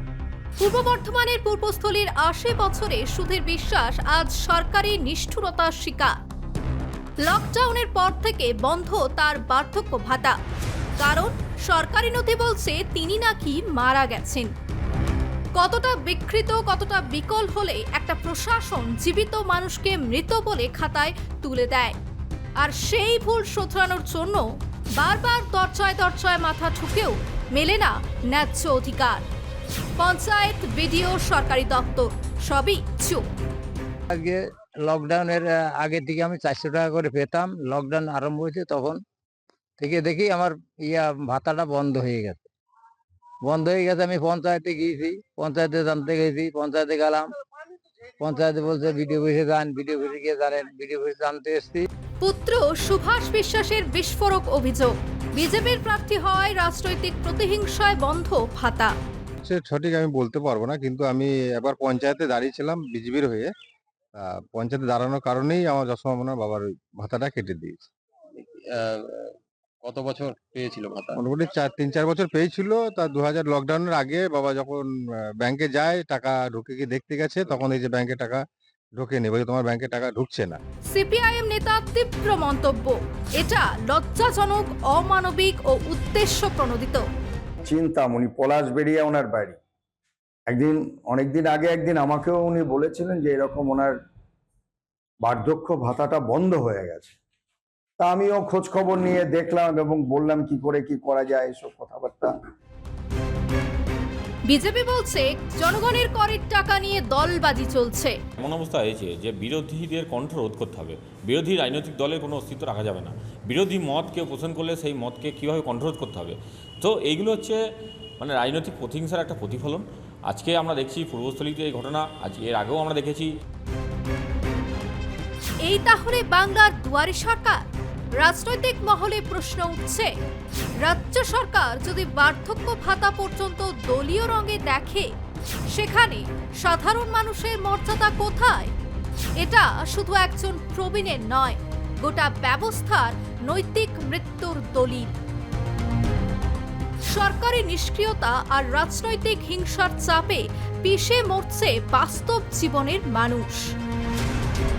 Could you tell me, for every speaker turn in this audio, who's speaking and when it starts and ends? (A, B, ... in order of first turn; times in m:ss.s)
0:00.6-0:06.1 A
0:07.2-0:10.4 A
0:11.0-0:14.5 A
0:15.5-0:22.0 A
0:22.6-0:29.2 A
0:30.0-0:33.2 A
0:34.1-0:39.0 B
0:39.8-0:42.5 B
0:43.4-0:47.3 B
0:48.2-0:51.9 B
0:52.2-0:58.9 A
0:59.4-1:03.5 C
1:04.2-1:07.9 C
1:08.4-1:11.2 D
1:11.2-1:14.9 C
1:15.4-1:18.4 C
1:19.0-1:20.6 C
1:20.9-1:27.0 A
1:27.6-1:29.6 E
1:30.5-1:33.9 E
1:35.2-1:37.1 E
1:38.0-1:42.4 E
1:44.5-1:48.2 A
1:48.4-1:57.6 F
1:58.2-2:03.3 F
2:05.6-2:07.6 A
2:08.2-2:10.1 A
2:10.8-2:15.1 A
2:15.7-2:18.7 A
2:19.4-2:25.2 A
2:27.0-2:33.7 A